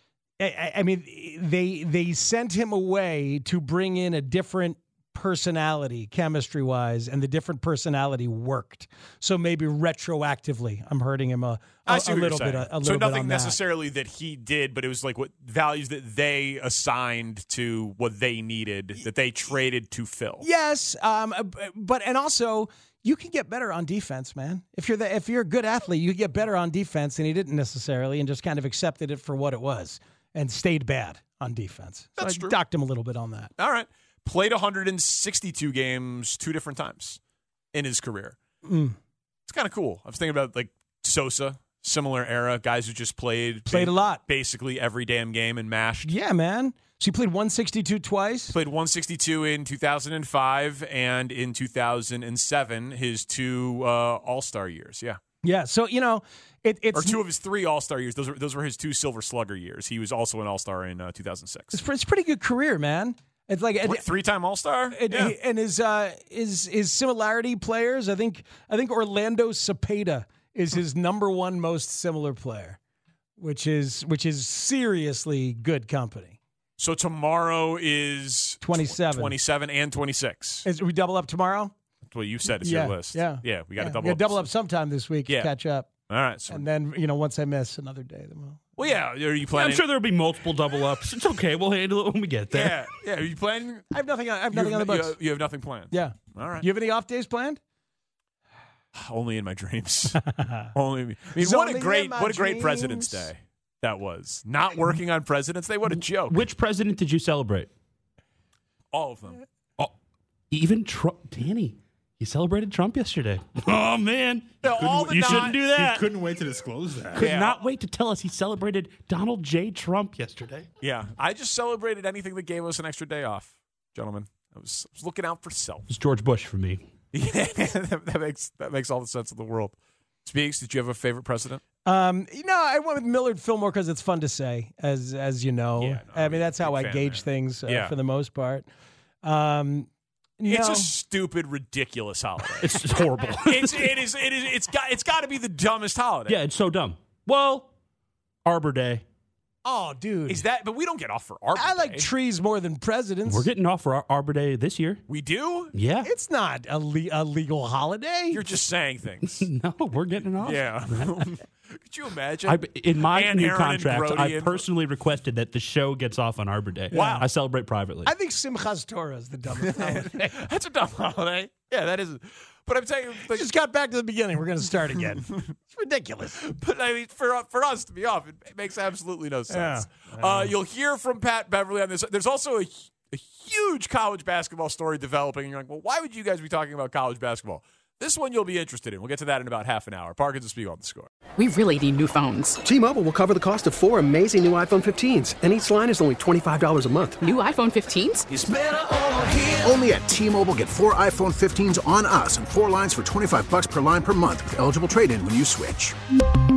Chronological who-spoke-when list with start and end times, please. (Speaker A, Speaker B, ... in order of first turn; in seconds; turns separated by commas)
Speaker A: 0.4-13.6, Speaker B: 11.9-20.5, Speaker A: 20.4-33.5, Speaker B: 32.2-32.5, Speaker B: 33.6-37.2, Speaker B: 37.7-38.4, Speaker A: 38.6-39.0, Speaker B: 39.5-46.1, Speaker A: 43.7-44.2, Speaker A: 46.0-48.5, Speaker B: 48.5-55.2, Speaker A: 55.4-57.2, Speaker B: 56.9-61.8, Speaker A: 61.7-64.0, Speaker B: 63.8-65.3, Speaker A: 64.9-72.8, Speaker A: 73.4-76.4, Speaker B: 76.8-80.7, Speaker A: 78.6-79.4, Speaker A: 80.7-81.7, Speaker B: 82.1-84.5, Speaker A: 82.6-85.9, Speaker B: 85.3-85.5, Speaker B: 86.1-86.7, Speaker A: 86.5-88.6, Speaker B: 88.8-89.8, Speaker C: 89.5-92.9, Speaker B: 92.5-93.9, Speaker A: 93.9-95.2, Speaker B: 94.5-96.7, Speaker A: 95.9-97.6, Speaker B: 99.0-100.2, Speaker A: 100.3-100.7, Speaker B: 100.8-106.4, Speaker A: 101.4-103.3, Speaker C: 106.3-107.7, Speaker B: 108.9-109.4, Speaker C: 110.5-116.0, Speaker B: 114.6-115.6, Speaker D: 114.8-117.3, Speaker C: 117.1-120.7, Speaker B: 117.2-117.6, Speaker B: 120.8-125.9, Speaker C: 125.9-126.8, Speaker B: 127.1-131.6, Speaker A: 131.8-138.7, Speaker B: 135.8-137.9, Speaker A: 139.2-139.9, Speaker A: 140.4-140.9, Speaker B: 140.5-142.8, Speaker C: 142.6-144.0, Speaker B: 143.4-146.4, Speaker C: 146.3-147.7, Speaker C: 148.4-149.0, Speaker A: 149.7-150.4, Speaker B: 150.3-152.1, Speaker A: 151.6-153.5, Speaker C: 153.3-155.0, Speaker B: 155.1-155.7, Speaker C: 155.7-156.1, Speaker A: 156.0-158.4, Speaker B: 158.3-159.5, Speaker C: 159.2-161.3, Speaker B: 160.4-164.7, Speaker C: 162.5-168.1, Speaker A: 166.9-167.3, Speaker B: 166.9-167.3, Speaker A: 168.0-170.4, Speaker B: 169.6-173.5, Speaker A: 173.2-176.4, Speaker B: 176.4-191.1, Speaker A: 179.5-180.5, Speaker E: 191.4-192.6, Speaker F: 192.6-197.2, Speaker E: 197.2-198.3, Speaker G: 198.3-205.9